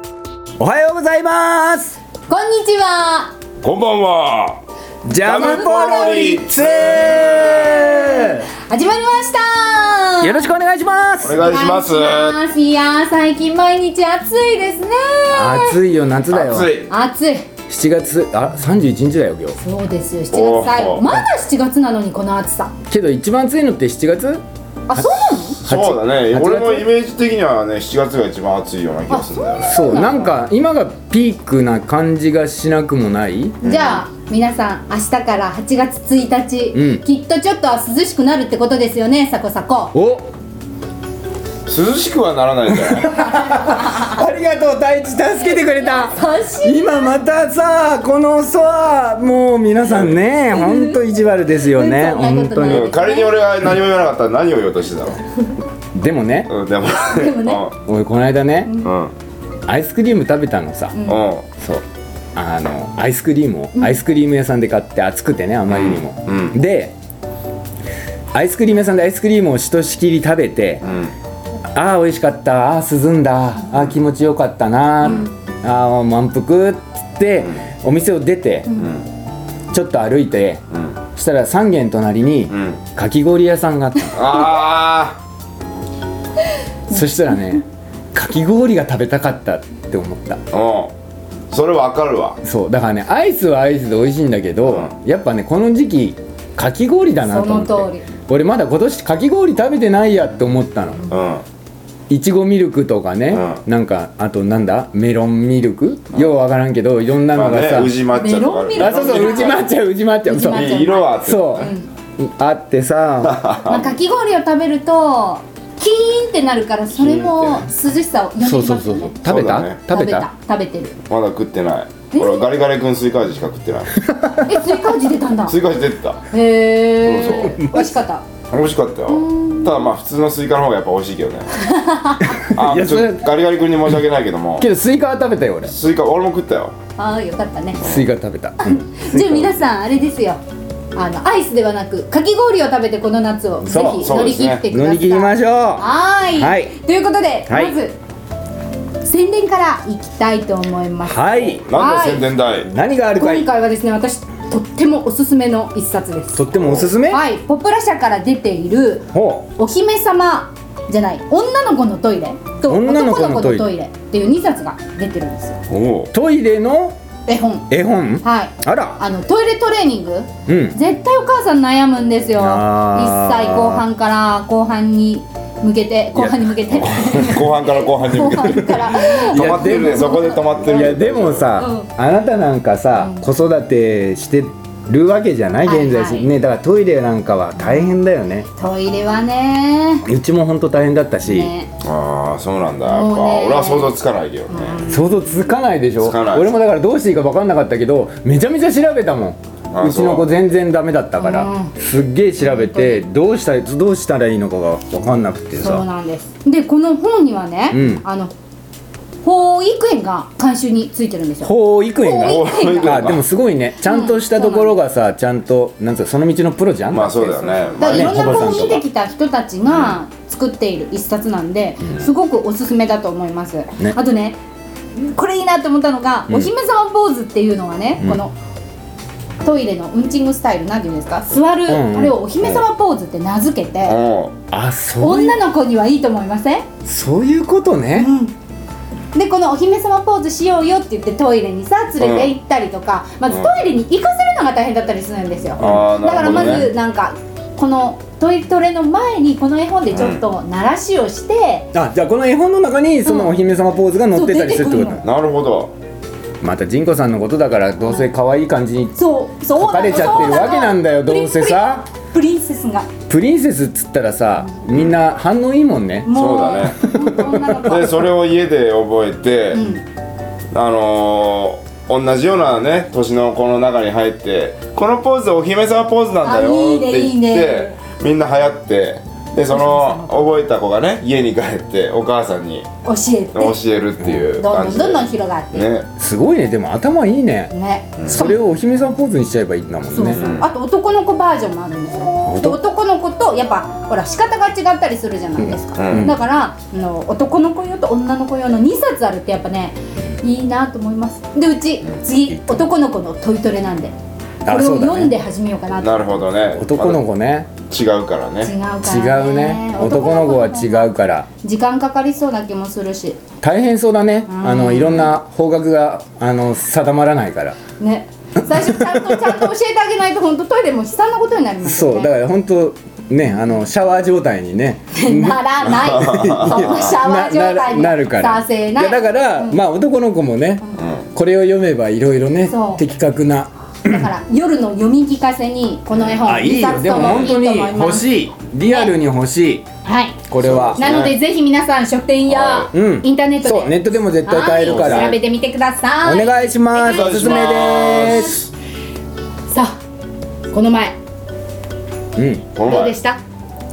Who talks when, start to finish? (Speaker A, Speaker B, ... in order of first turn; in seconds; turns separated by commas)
Speaker A: 0.6-2.0, Speaker B: 2.3-3.3, Speaker C: 3.6-4.6, Speaker A: 5.0-8.5, Speaker C: 5.2-8.0, Speaker B: 5.2-6.4, Speaker B: 8.2-10.5, Speaker A: 10.2-11.4, Speaker C: 11.2-12.4, Speaker B: 11.4-15.8, Speaker A: 15.3-16.7, Speaker C: 16.3-16.9, Speaker B: 16.9-17.5, Speaker A: 17.7-19.6, Speaker B: 19.6-22.7, Speaker C: 20.3-21.1, Speaker A: 22.9-24.4, Speaker B: 24.9-25.6, Speaker A: 24.9-26.9, Speaker C: 25.5-29.8, Speaker B: 29.1-30.3, Speaker A: 29.6-33.6, Speaker B: 33.6-39.9, Speaker C: 33.6-34.0, Speaker A: 36.7-37.0, Speaker A: 39.9-40.3, Speaker C: 41.7-43.3, Speaker A: 42.7-52.9, Speaker B: 43.8-44.0, Speaker B: 45.7-47.1, Speaker C: 49.8-50.2, Speaker B: 50.5-51.0, Speaker B: 51.6-53.4, Speaker C: 52.6-55.2, Speaker A: 56.0-56.5, Speaker C: 56.5-57.8, Speaker B: 57.0-57.6, Speaker A: 57.8-58.8, Speaker C: 58.8-59.1, Speaker A: 59.7-61.0, Speaker B: 60.9-61.2, Speaker C: 61.1-61.5, Speaker A: 62.4-67.0, Speaker C: 65.7-66.6, Speaker A: 68.3-70.9, Speaker C: 70.8-71.1, Speaker A: 71.7-78.8, Speaker C: 78.8-79.0, Speaker A: 79.7-80.6, Speaker C: 80.7-81.0, Speaker A: 81.1-84.3, Speaker C: 82.5-82.8, Speaker C: 84.2-85.2, Speaker A: 86.9-90.4, Speaker C: 90.5-90.9, Speaker C: 91.5-92.4, Speaker A: 92.4-101.1, Speaker C: 94.7-94.9, Speaker B: 97.2-98.1, Speaker C: 101.1-101.4, Speaker A: 102.1-108.0, Speaker C: 103.3-103.6, Speaker C: 107.3-109.6, Speaker B: 108.1-109.7, Speaker A: 108.8-113.5, Speaker B: 110.2-111.9, Speaker C: 110.5-111.7, Speaker C: 113.3-113.9, Speaker B: 113.7-119.2, Speaker C: 116.9-117.7, Speaker A: 118.4-120.3, Speaker C: 119.2-119.8, Speaker B: 119.9-121.0, Speaker C: 121.1-124.0, Speaker B: 122.1-122.5, Speaker A: 124.0-124.6, Speaker B: 124.4-125.6, Speaker C: 125.5-126.2, Speaker B: 126.3-128.2, Speaker C: 127.0-127.5, Speaker A: 127.3-127.9, Speaker C: 128.5-131.5, Speaker B: 129.1-129.8, Speaker B: 131.5-132.4, Speaker A: 132.2-133.3, Speaker C: 132.5-134.7, Speaker A: 134.6-135.7, Speaker C: 135.7-136.8, Speaker B: 137.0-137.8, Speaker C: 137.8-138.1, Speaker A: 137.8-139.7, Speaker B: 138.6-140.4, Speaker B: 140.9-148.0, Speaker A: 143.6-144.1, Speaker C: 144.0-144.7, Speaker A: 144.7-146.8, Speaker A: 147.5-147.8, Speaker B: 149.0-152.3, Speaker A: 151.1-151.6, Speaker C: 151.7-152.7, Speaker A: 152.6-153.5, Speaker B: 153.2-156.4, Speaker A: 156.3-157.2, Speaker C: 156.5-156.9, Speaker B: 157.1-165.6, Speaker A: 159.1-159.5, Speaker A: 162.7-163.7, Speaker C: 165.7-166.1, Speaker A: 166.1-167.0, Speaker B: 167.3-167.7, Speaker A: 167.7-169.0, Speaker B: 168.2-180.9, Speaker A: 170.5-170.8, Speaker A: 172.4-173.8, Speaker A: 176.2-177.5, Speaker C: 177.0-181.5, Speaker A: 179.0-188.5, Speaker B: 181.6-181.9, Speaker B: 185.6-186.3, Speaker B: 188.6-190.1, Speaker A: 190.1-191.5, Speaker B: 191.2-191.7, Speaker C: 191.8-194.8, Speaker B: 192.8-193.9, Speaker B: 194.5-195.4, Speaker A: 194.9-205.9, Speaker C: 196.0-196.6, Speaker C: 199.7-200.3, Speaker B: 201.2-201.7, Speaker B: 202.4-203.0, Speaker B: 205.6-208.3, Speaker A: 207.7-208.0, Speaker B: 209.2-213.1, Speaker A: 211.4-218.8, Speaker C: 212.2-213.2, Speaker B: 213.8-214.8, Speaker C: 216.9-218.8, Speaker B: 217.7-224.4, Speaker B: 225.0-228.4, Speaker B: 229.4-234.0, Speaker A: 231.7-232.2, Speaker C: 233.8-234.4, Speaker A: 234.5-235.4, Speaker B: 235.0-236.7, Speaker A: 236.8-238.1, Speaker B: 237.9-238.3, Speaker B: 239.1-251.7, Speaker C: 242.0-242.3, Speaker A: 245.6-246.7, Speaker C: 245.6-246.7, Speaker C: 249.9-250.2, Speaker A: 251.7-255.1, Speaker B: 253.0-253.3, Speaker B: 254.1-255.0, Speaker C: 255.0-255.7, Speaker A: 256.4-259.0, Speaker B: 259.0-262.9, Speaker A: 259.5-261.9, Speaker A: 263.1-266.1, Speaker B: 266.1-268.1, Speaker C: 266.1-269.6, Speaker A: 266.7-267.9, Speaker B: 269.5-269.8, Speaker C: 270.5-282.7, Speaker B: 276.2-277.8, Speaker B: 279.5-280.2, Speaker B: 282.8-283.6, Speaker C: 283.3-285.9, Speaker A: 284.0-284.3, Speaker B: 284.4-285.7, Speaker A: 286.0-287.5, Speaker B: 287.5-288.4, Speaker C: 288.0-288.2, Speaker A: 288.1-290.2, Speaker B: 289.9-303.9, Speaker C: 290.1-290.5, Speaker A: 292.2-292.6, Speaker A: 295.4-296.1, Speaker C: 295.8-296.1, Speaker A: 302.3-302.7, Speaker A: 304.5-305.1, Speaker B: 304.5-306.2, Speaker C: 305.8-307.0, Speaker A: 306.6-307.5, Speaker C: 307.7-308.5, Speaker B: 308.4-313.2, Speaker A: 308.8-311.3, Speaker A: 313.4-317.6, Speaker B: 314.3-315.1, Speaker B: 317.8-322.1, Speaker A: 318.4-319.4, Speaker A: 321.6-334.1, Speaker B: 324.9-329.6, Speaker C: 325.9-326.8, Speaker C: 330.8-331.0, Speaker B: 332.5-332.8, Speaker B: 333.9-338.1, Speaker A: 336.2-339.6, Speaker C: 336.9-337.3, Speaker B: 338.7-338.9, Speaker B: 339.8-340.2, Speaker A: 340.3-340.9, Speaker C: 340.4-341.1, Speaker B: 340.8-348.2, Speaker C: 342.3-342.7, Speaker A: 342.7-345.1, Speaker C: 344.7-345.2, Speaker A: 346.0-348.4, Speaker C: 346.8-348.5, Speaker B: 349.5-349.7, Speaker B: 350.5-351.0, Speaker A: 352.2-352.5, Speaker C: 352.5-352.9, Speaker B: 352.6-353.2